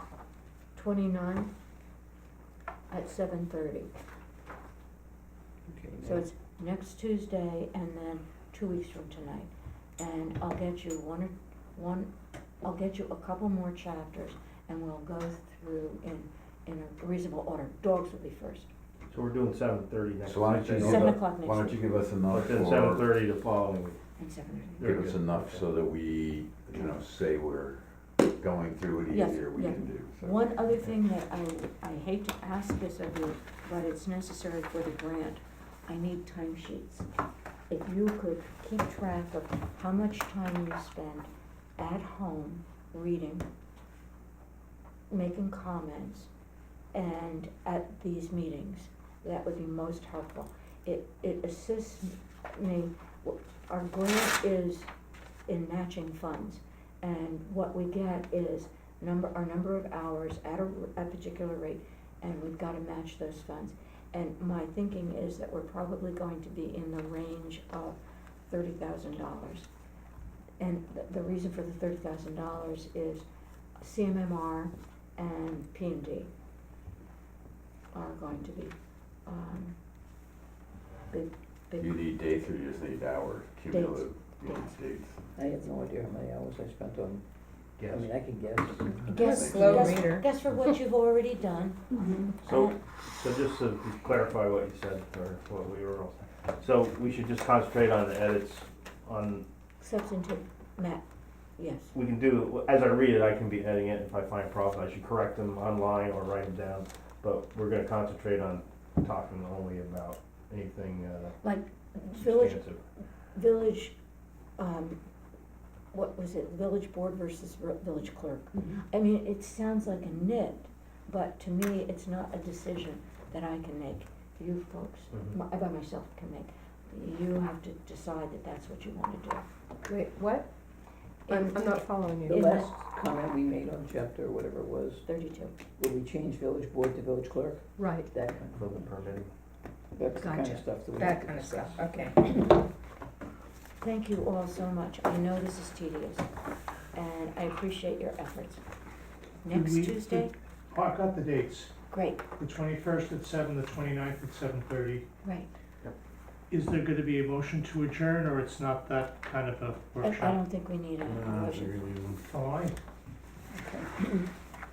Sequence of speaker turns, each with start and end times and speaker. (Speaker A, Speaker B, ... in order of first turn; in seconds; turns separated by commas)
Speaker A: 0.7-1.5, Speaker A: 2.9-3.9, Speaker B: 5.7-6.1, Speaker A: 6.0-12.1, Speaker A: 12.6-18.7, Speaker C: 19.1-21.1, Speaker D: 20.2-23.1, Speaker A: 20.8-21.8, Speaker C: 22.3-24.0, Speaker A: 24.2-24.8, Speaker C: 24.8-25.6, Speaker D: 24.8-30.4, Speaker A: 29.1-37.1, Speaker A: 37.7-43.5, Speaker A: 45.1-46.3, Speaker A: 46.9-54.9, Speaker A: 55.5-69.7, Speaker A: 70.6-73.2, Speaker A: 73.8-76.3, Speaker A: 77.9-79.8, Speaker A: 81.1-81.9, Speaker D: 81.8-85.2, Speaker A: 83.7-84.7, Speaker B: 85.3-87.2, Speaker C: 87.8-88.1, Speaker B: 87.9-89.0, Speaker A: 89.0-92.8, Speaker E: 89.1-90.3, Speaker D: 89.2-90.2, Speaker C: 92.4-99.4, Speaker A: 99.8-101.0, Speaker A: 101.6-101.9, Speaker C: 101.9-111.4, Speaker A: 111.4-112.6, Speaker C: 112.1-112.8, Speaker A: 113.3-113.9, Speaker A: 114.6-115.0, Speaker A: 115.9-129.4, Speaker E: 129.9-130.5, Speaker A: 131.3-132.7, Speaker E: 131.3-132.5, Speaker B: 132.2-135.1, Speaker A: 135.0-135.6, Speaker B: 135.8-138.7, Speaker E: 137.8-138.1, Speaker C: 138.5-139.3, Speaker B: 139.9-142.5, Speaker E: 140.2-142.2, Speaker A: 143.8-146.3, Speaker A: 146.9-148.6, Speaker A: 149.4-150.3, Speaker F: 149.5-151.7, Speaker A: 151.9-152.2, Speaker F: 152.4-155.0, Speaker A: 155.2-155.5, Speaker F: 156.5-160.4, Speaker A: 160.0-161.9, Speaker F: 162.3-162.7, Speaker B: 163.5-164.3